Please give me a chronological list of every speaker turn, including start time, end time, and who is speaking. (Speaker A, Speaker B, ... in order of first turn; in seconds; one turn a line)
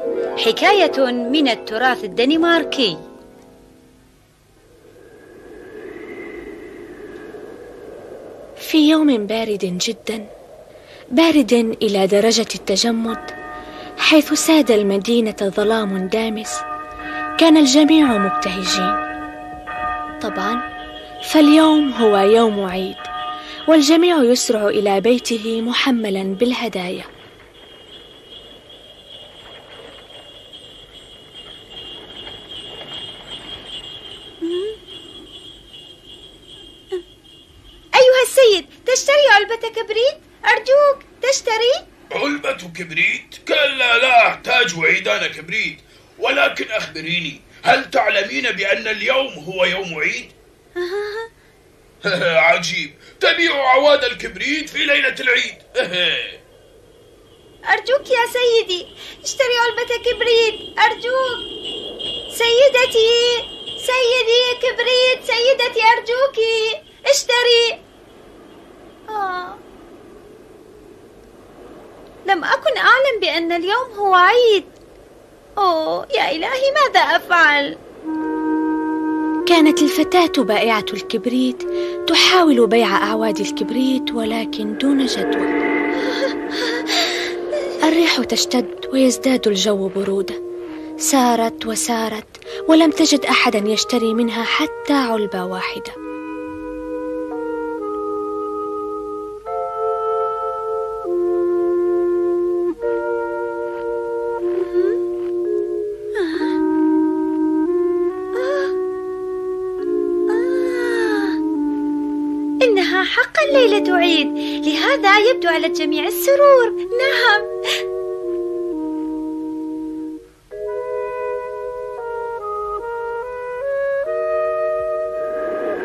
Speaker A: 0.4-3.0
Speaker B: 8.6-10.2
Speaker B: 11.2-13.3
Speaker B: 14.0-16.6
Speaker B: 17.4-19.0
Speaker B: 20.2-20.6
Speaker B: 21.3-23.1
Speaker B: 23.7-27.1
Speaker A: 34.4-34.8
Speaker A: 37.9-41.8
Speaker C: 42.1-50.3
Speaker A: 50.8-51.3
Speaker C: 52.0-56.4
Speaker A: 57.7-61.4
Speaker A: 62.3-67.8
Speaker A: 69.1-69.6
Speaker A: 72.3-74.7
Speaker A: 75.6-77.8
Speaker B: 79.5-85.6
Speaker A: 86.1-87.2
Speaker B: 87.8-90.4
Speaker B: 91.0-95.9
Speaker A: 104.6-105.0
Speaker A: 106.2-106.5
Speaker A: 108.3-108.7
Speaker A: 110.3-111.4
Speaker A: 112.6-117.5